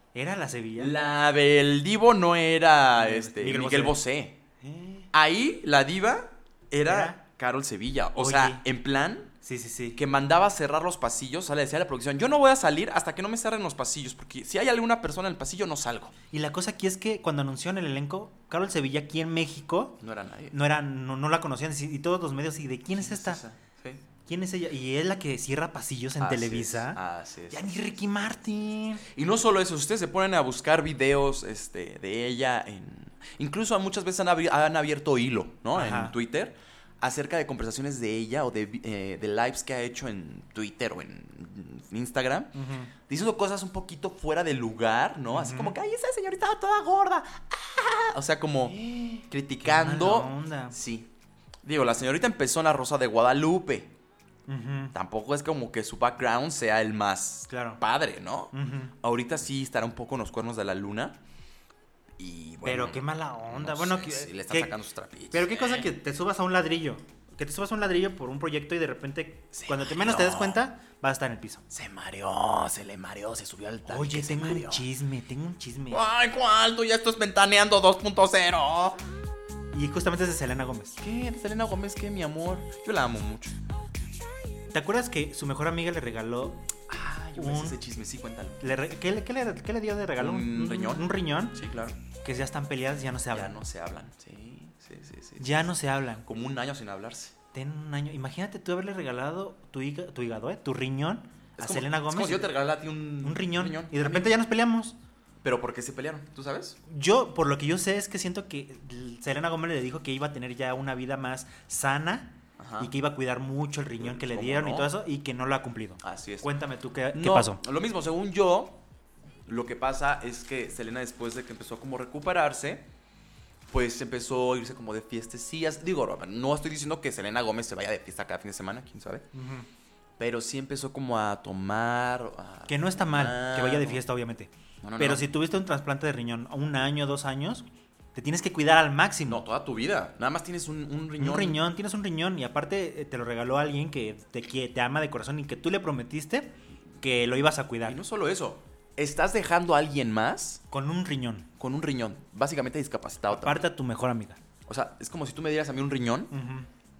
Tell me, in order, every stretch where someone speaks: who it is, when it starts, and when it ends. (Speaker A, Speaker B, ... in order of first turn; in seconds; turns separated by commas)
Speaker A: 0.1-0.9, Speaker B: 0.8-4.4, Speaker A: 3.0-4.0, Speaker A: 4.6-5.1, Speaker B: 5.1-9.3, Speaker A: 6.9-7.2, Speaker A: 8.2-8.6, Speaker A: 9.4-10.0, Speaker B: 10.0-16.1, Speaker A: 16.3-20.0, Speaker B: 20.0-20.6, Speaker A: 20.5-23.4, Speaker B: 22.9-24.0, Speaker A: 24.2-27.0, Speaker B: 26.2-27.9, Speaker A: 27.5-29.0, Speaker B: 29.1-51.1, Speaker A: 35.7-36.1, Speaker A: 42.5-42.9, Speaker A: 45.3-45.8, Speaker A: 48.7-50.8, Speaker B: 51.6-53.9, Speaker A: 54.5-55.0, Speaker B: 54.9-61.2, Speaker A: 57.5-57.8, Speaker A: 58.5-59.0, Speaker B: 62.2-65.9, Speaker A: 62.6-64.7, Speaker A: 65.3-71.7, Speaker B: 69.5-70.6, Speaker B: 71.7-74.8, Speaker A: 73.9-76.1, Speaker B: 75.9-79.0, Speaker A: 79.7-81.0, Speaker B: 81.0-83.6, Speaker A: 84.7-86.7, Speaker B: 86.9-88.6, Speaker A: 87.4-87.8, Speaker A: 88.6-91.6, Speaker B: 90.2-92.0, Speaker A: 92.2-93.6, Speaker B: 93.3-95.7, Speaker A: 95.4-96.3, Speaker B: 96.2-97.3, Speaker A: 97.5-102.5, Speaker B: 101.6-104.3, Speaker A: 103.2-105.0, Speaker B: 105.4-106.8, Speaker A: 106.9-117.6, Speaker B: 112.6-112.9, Speaker B: 114.0-114.9, Speaker B: 116.0-116.5, Speaker B: 117.1-118.8, Speaker B: 119.5-122.9, Speaker B: 123.7-129.3, Speaker A: 129.3-129.7, Speaker B: 130.2-134.0, Speaker A: 132.7-139.4, Speaker B: 134.8-135.3, Speaker B: 139.3-141.6, Speaker A: 141.2-148.0, Speaker B: 147.8-150.6, Speaker A: 150.7-151.5, Speaker B: 151.6-153.6, Speaker A: 153.3-154.4, Speaker B: 154.7-156.3, Speaker A: 156.3-156.7